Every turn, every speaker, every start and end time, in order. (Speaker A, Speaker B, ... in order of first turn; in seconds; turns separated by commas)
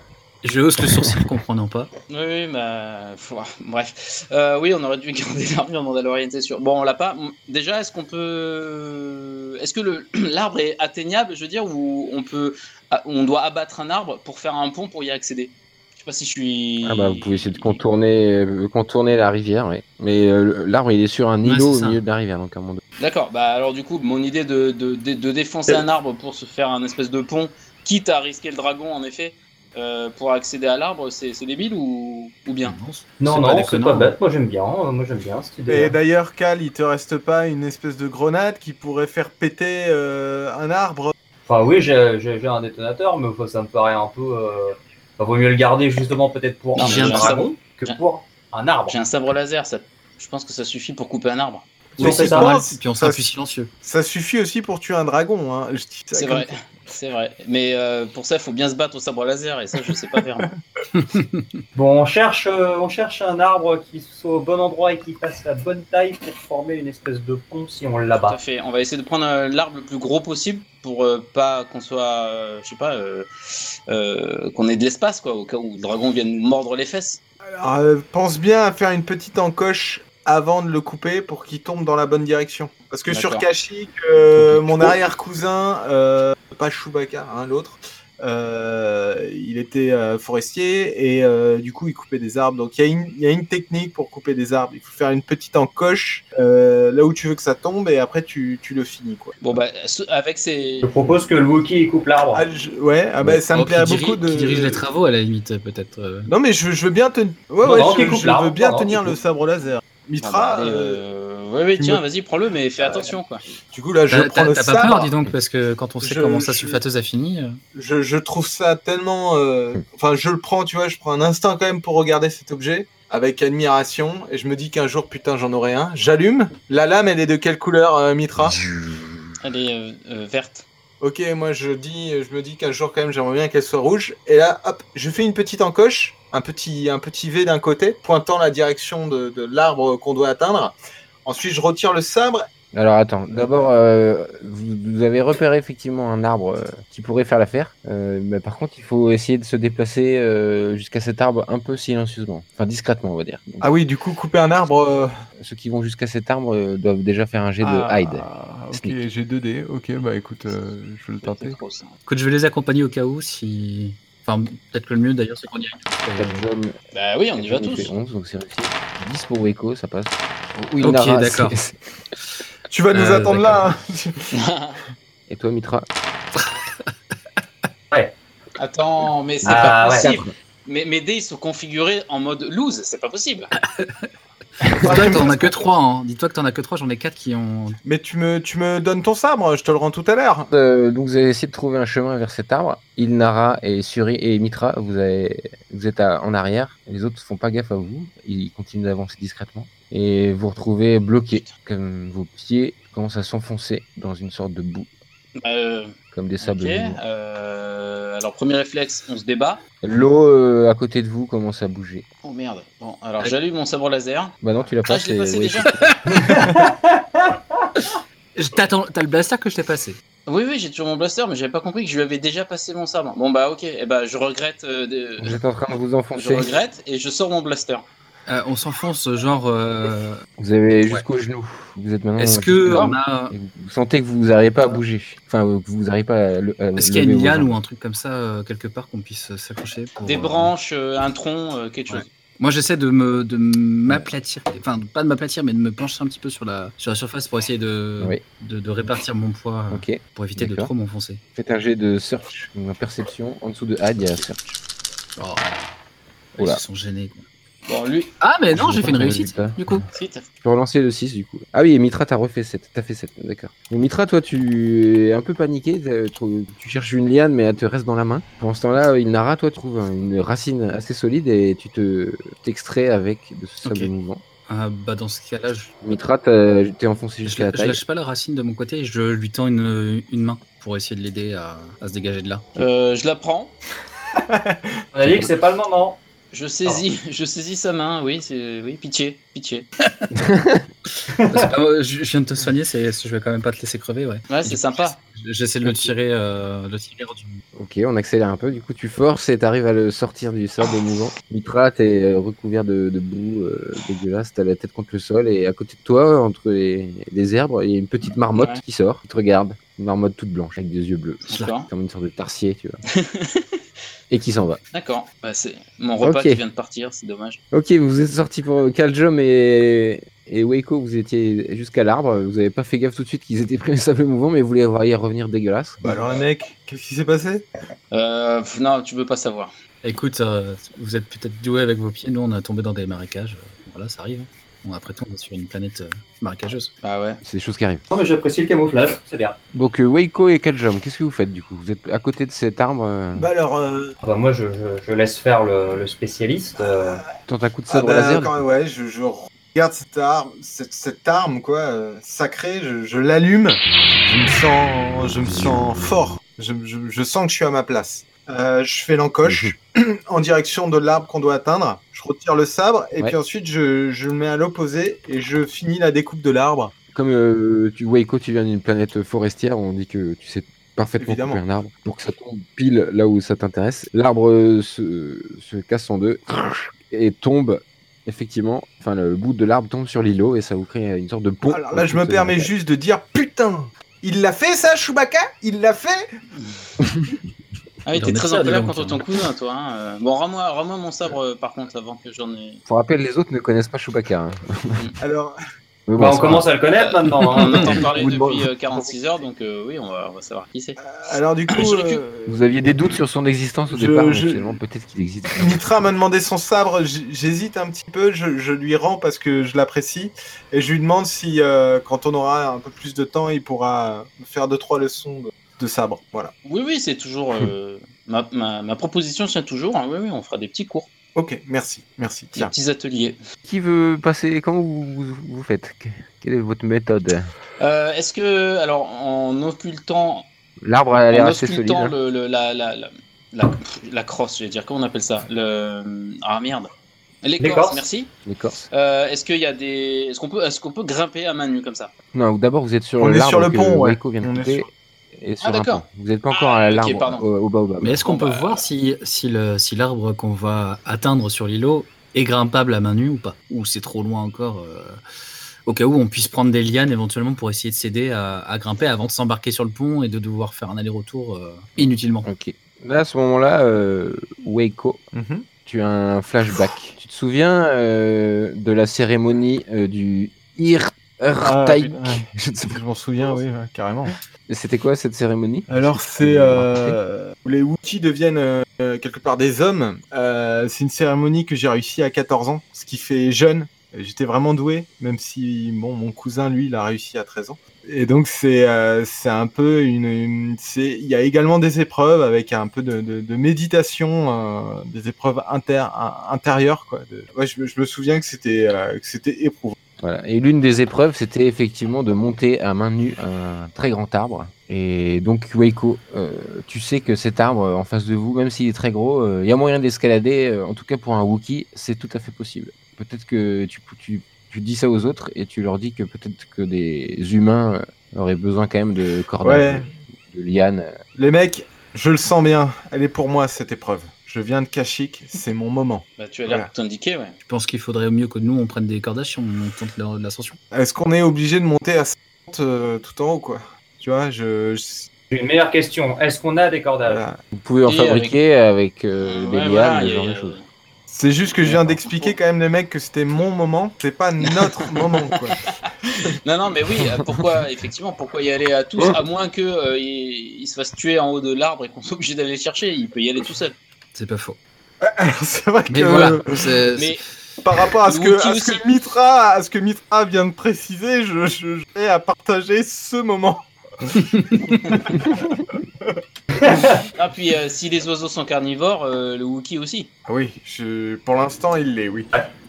Speaker A: 0.4-1.9, Speaker B: 2.1-17.8, Speaker C: 16.8-22.8, Speaker A: 21.4-22.0, Speaker B: 23.0-32.8, Speaker A: 32.6-34.1, Speaker D: 33.2-36.0, Speaker E: 35.7-41.1, Speaker D: 41.5-49.0, Speaker A: 46.8-47.5, Speaker B: 46.8-48.0, Speaker B: 48.9-51.7, Speaker E: 52.0-53.2, Speaker D: 52.0-52.5, Speaker A: 52.0-53.7, Speaker E: 53.8-56.5, Speaker B: 56.1-60.5, Speaker A: 60.9-61.5, Speaker D: 61.7-68.4, Speaker B: 68.2-73.3, Speaker B: 73.9-77.2, Speaker E: 77.6-99.4, Speaker B: 83.1-83.5, Speaker B: 99.4-100.9, Speaker D: 100.8-102.4, Speaker E: 102.3-104.8, Speaker A: 103.5-106.3, Speaker E: 106.3-111.0, Speaker D: 107.6-109.2, Speaker B: 110.2-113.5, Speaker E: 113.7-115.1, Speaker A: 114.1-117.6, Speaker E: 116.0-116.8, Speaker E: 117.7-128.6, Speaker C: 128.4-129.3, Speaker B: 129.4-130.7, Speaker E: 131.0-142.5, Speaker C: 142.7-153.7, Speaker E: 153.6-155.1, Speaker C: 155.4-159.0, Speaker E: 157.6-161.6, Speaker B: 161.2-162.0, Speaker A: 162.1-166.5, Speaker C: 166.2-166.8, Speaker B: 166.9-167.9, Speaker C: 167.3-171.8, Speaker A: 170.8-171.6, Speaker E: 172.7-174.4, Speaker A: 172.9-173.6, Speaker B: 174.3-174.8, Speaker C: 175.3-175.9, Speaker A: 176.3-176.9, Speaker B: 178.6-183.5, Speaker C: 179.4-180.3, Speaker D: 179.4-180.1, Speaker A: 183.5-184.1, Speaker A: 184.6-187.8, Speaker C: 184.7-184.9, Speaker E: 184.8-185.6, Speaker E: 187.8-190.5, Speaker C: 190.5-204.9, Speaker B: 205.4-209.6, Speaker C: 206.1-207.0, Speaker C: 209.8-212.0, Speaker B: 212.2-215.8, Speaker C: 214.4-215.8, Speaker A: 215.6-216.6, Speaker D: 216.3-217.3, Speaker A: 217.9-220.0, Speaker B: 220.2-225.4, Speaker C: 225.2-226.5, Speaker B: 226.1-227.8, Speaker A: 228.3-230.2, Speaker C: 230.4-237.6, Speaker A: 232.2-233.3, Speaker A: 236.8-240.5, Speaker B: 240.0-242.1, Speaker A: 241.9-251.2, Speaker C: 249.7-250.7, Speaker C: 251.3-254.4, Speaker A: 255.2-255.6, Speaker A: 256.3-257.2, Speaker B: 257.7-258.1, Speaker A: 258.2-259.9, Speaker C: 258.5-259.6, Speaker B: 259.9-260.3, Speaker C: 260.4-274.2, Speaker A: 273.6-273.9, Speaker A: 274.5-275.7, Speaker C: 275.8-277.8, Speaker A: 277.2-282.6, Speaker B: 282.6-283.5, Speaker E: 284.2-284.6, Speaker D: 284.9-286.0, Speaker B: 286.3-289.7, Speaker C: 290.1-290.6, Speaker D: 291.1-291.5, Speaker A: 291.3-297.4, Speaker B: 294.3-295.0, Speaker C: 295.6-295.9, Speaker C: 297.5-312.8, Speaker B: 308.3-308.6, Speaker B: 311.3-311.7, Speaker B: 313.0-313.6, Speaker C: 314.1-314.6, Speaker B: 314.7-317.4, Speaker C: 316.0-316.4, Speaker C: 317.5-325.9, Speaker E: 325.8-327.5, Speaker B: 327.9-329.5, Speaker A: 329.8-336.7, Speaker B: 336.8-337.2, Speaker C: 337.2-337.8, Speaker D: 337.9-339.4, Speaker C: 339.5-343.3, Speaker E: 343.1-343.9, Speaker D: 344.0-347.0, Speaker C: 347.3-348.4, Speaker E: 347.7-366.7, Speaker C: 359.2-359.5, Speaker C: 366.9-382.5, Speaker E: 371.0-371.4, Speaker E: 381.5-386.1, Speaker C: 386.8-387.1, Speaker B: 387.9-392.6, Speaker A: 387.9-389.0, Speaker C: 392.7-394.8, Speaker E: 395.0-395.3, Speaker C: 395.9-396.5, Speaker D: 396.0-397.8, Speaker B: 396.8-400.8, Speaker A: 397.4-397.7, Speaker C: 397.9-398.9, Speaker E: 400.8-402.4, Speaker B: 401.5-402.0, Speaker C: 402.3-405.6, Speaker E: 403.7-404.6, Speaker E: 405.3-416.3, Speaker B: 416.4-420.9, Speaker E: 421.1-422.5, Speaker B: 422.3-423.2, Speaker C: 423.4-427.3, Speaker B: 427.6-430.3, Speaker C: 430.6-431.9, Speaker B: 431.1-436.7, Speaker B: 437.2-438.1, Speaker D: 437.4-437.8, Speaker C: 438.2-438.7, Speaker B: 438.7-441.9, Speaker C: 442.1-448.0, Speaker E: 443.0-444.7, Speaker B: 445.4-447.3, Speaker A: 447.8-455.0, Speaker B: 448.1-448.6, Speaker A: 455.6-462.3, Speaker C: 461.8-465.0, Speaker E: 465.1-465.5, Speaker C: 465.6-472.8, Speaker E: 471.4-474.1, Speaker C: 474.5-477.0, Speaker E: 475.7-499.8, Speaker C: 500.0-521.0, Speaker E: 519.4-519.9, Speaker E: 521.1-526.7, Speaker B: 526.2-527.4, Speaker A: 527.4-530.6, Speaker E: 530.7-535.1, Speaker D: 535.3-537.2, Speaker E: 537.0-537.4, Speaker C: 537.5-540.5, Speaker B: 537.9-538.3, Speaker B: 539.2-540.6, Speaker E: 541.1-545.6, Speaker B: 542.0-542.3, Speaker B: 546.4-553.8, Speaker A: 554.1-554.6, Speaker E: 555.0-556.6, Speaker A: 555.9-557.2, Speaker E: 557.6-566.2, Speaker B: 558.0-558.9, Speaker A: 564.4-564.8, Speaker D: 566.6-567.0, Speaker B: 567.1-570.1, Speaker E: 570.3-572.3